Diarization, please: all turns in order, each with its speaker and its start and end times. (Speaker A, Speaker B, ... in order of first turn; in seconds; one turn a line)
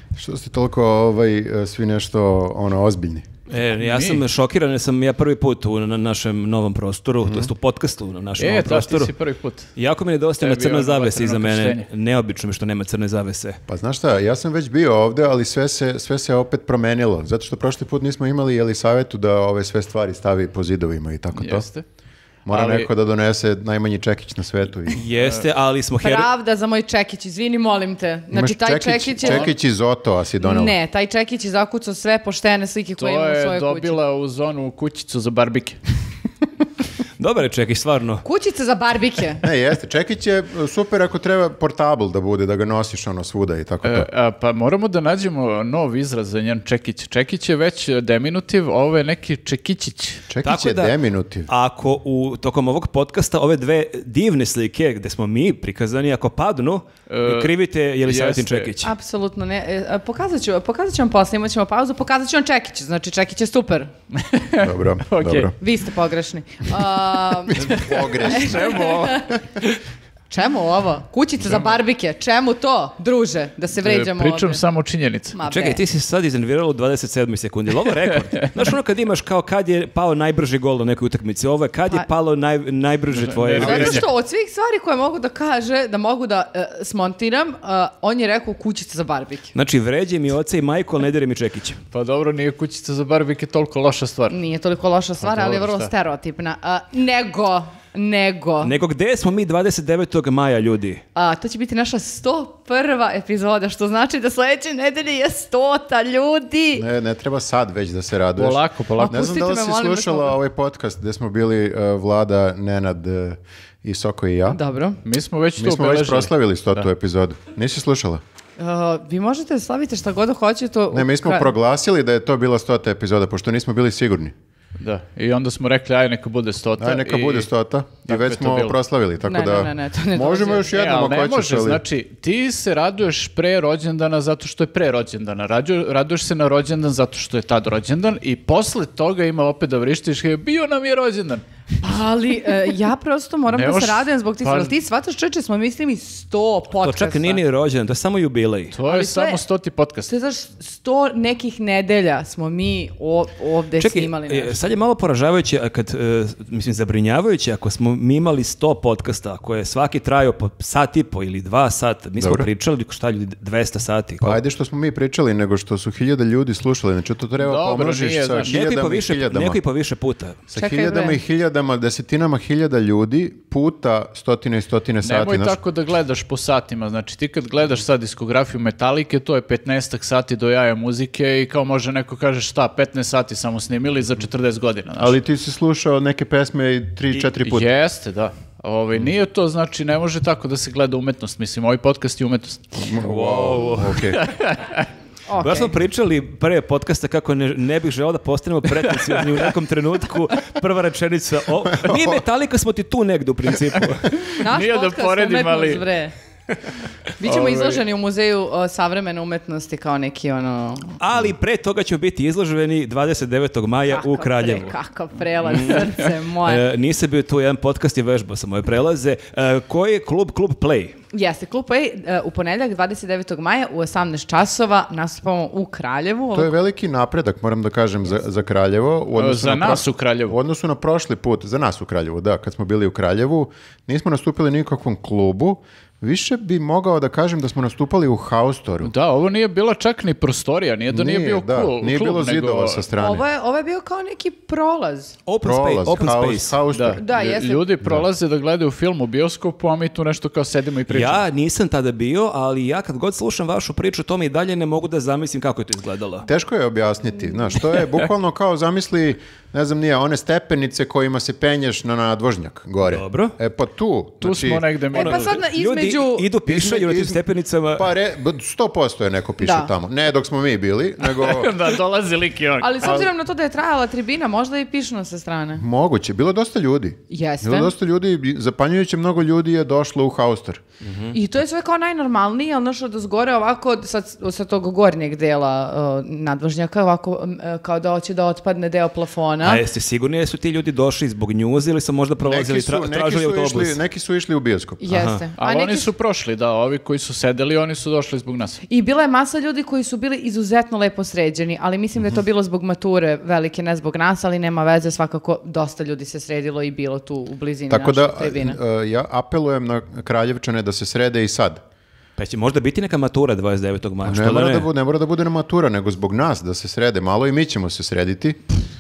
Speaker A: 0.1-3.3
Speaker B: 3.5-9.1
Speaker C: 3.7-4.2
Speaker A: 7.2-7.5
Speaker C: 8.4-9.7
Speaker B: 9.8-13.6
Speaker C: 10.4-11.9
Speaker A: 13.7-21.7
Speaker C: 21.4-21.9
Speaker A: 22.5-25.0
Speaker C: 22.5-22.9
Speaker B: 24.9-26.3
Speaker C: 25.2-25.5
Speaker D: 26.0-29.5
Speaker A: 28.3-30.8
Speaker C: 29.2-29.5
Speaker D: 30.4-34.0
Speaker C: 33.0-35.8
Speaker B: 37.2-38.2
Speaker D: 38.2-39.4
Speaker A: 39.4-44.1
Speaker C: 43.8-50.2
Speaker A: 50.3-51.5
Speaker B: 50.4-51.0
Speaker B: 51.5-58.9
Speaker C: 57.1-57.5
Speaker C: 58.1-58.7
Speaker D: 58.8-63.9
Speaker C: 64.1-65.5
Speaker A: 64.6-65.5
Speaker D: 65.6-69.4
Speaker A: 67.5-68.8
Speaker C: 68.2-69.3
Speaker D: 70.3-74.6
Speaker C: 73.8-75.4
Speaker D: 75.3-75.8
Speaker B: 75.5-84.1
Speaker C: 83.1-84.1
Speaker D: 83.6-89.5
Speaker B: 89.5-91.8
Speaker C: 91.9-94.4
Speaker D: 94.3-98.8
Speaker C: 95.2-95.9
Speaker B: 98.6-101.0
Speaker D: 101.2-106.9
Speaker A: 106.8-114.6
Speaker C: 108.4-109.2
Speaker D: 109.0-110.4
Speaker D: 114.5-115.0
Speaker C: 115.0-116.9
Speaker A: 115.6-118.2
Speaker D: 118.6-121.5
Speaker A: 120.9-124.3
Speaker C: 124.8-127.5
Speaker A: 126.8-131.8
Speaker C: 128.1-128.8
Speaker D: 129.2-130.7
Speaker C: 130.6-141.4
Speaker D: 141.8-147.4
Speaker C: 143.5-144.8
Speaker B: 146.8-148.8
Speaker C: 148.7-150.1
Speaker D: 148.8-149.4
Speaker D: 150.1-154.6
Speaker B: 153.8-164.4
Speaker A: 162.2-162.5
Speaker A: 164.2-169.6
Speaker C: 167.4-168.6
Speaker B: 168.4-170.4
Speaker A: 170.5-175.6
Speaker D: 170.6-171.2
Speaker C: 175.0-185.2
Speaker A: 185.0-187.7
Speaker C: 187.1-192.8
Speaker A: 192.8-194.2
Speaker B: 192.9-194.1
Speaker C: 194.1-194.9
Speaker D: 195.3-195.8
Speaker B: 195.4-204.3
Speaker A: 201.7-202.2
Speaker C: 204.3-205.8
Speaker D: 204.4-206.1
Speaker D: 207.2-211.0
Speaker C: 207.2-207.8
Speaker B: 211.0-214.7
Speaker D: 213.9-216.6
Speaker B: 215.4-221.0
Speaker D: 221.1-226.5
Speaker A: 226.3-238.9
Speaker C: 229.2-230.4
Speaker C: 238.8-242.8
Speaker A: 240.9-243.2
Speaker D: 242.9-245.2
Speaker B: 245.3-246.6
Speaker A: 245.4-247.0
Speaker C: 246.7-251.2
Speaker D: 247.0-247.7
Speaker A: 247.8-248.1
Speaker B: 250.9-256.3
Speaker A: 256.3-264.6
Speaker B: 262.9-263.4
Speaker C: 264.2-265.4
Speaker D: 264.9-266.3
Speaker B: 264.9-267.9
Speaker A: 266.4-267.2
Speaker A: 267.7-271.6
Speaker D: 269.4-269.7
Speaker C: 271.0-272.9
Speaker D: 272.6-275.6
Speaker A: 272.8-273.1
Speaker A: 275.6-280.6
Speaker D: 277.1-277.7
Speaker B: 280.8-281.2
Speaker D: 281.1-289.6
Speaker B: 289.4-293.8
Speaker A: 292.2-294.8
Speaker D: 294.8-295.9
Speaker B: 294.9-295.2
Speaker C: 295.4-298.6
Speaker D: 298.7-308.6
Speaker A: 307.7-311.6
Speaker B: 312.2-314.7
Speaker A: 314.0-318.4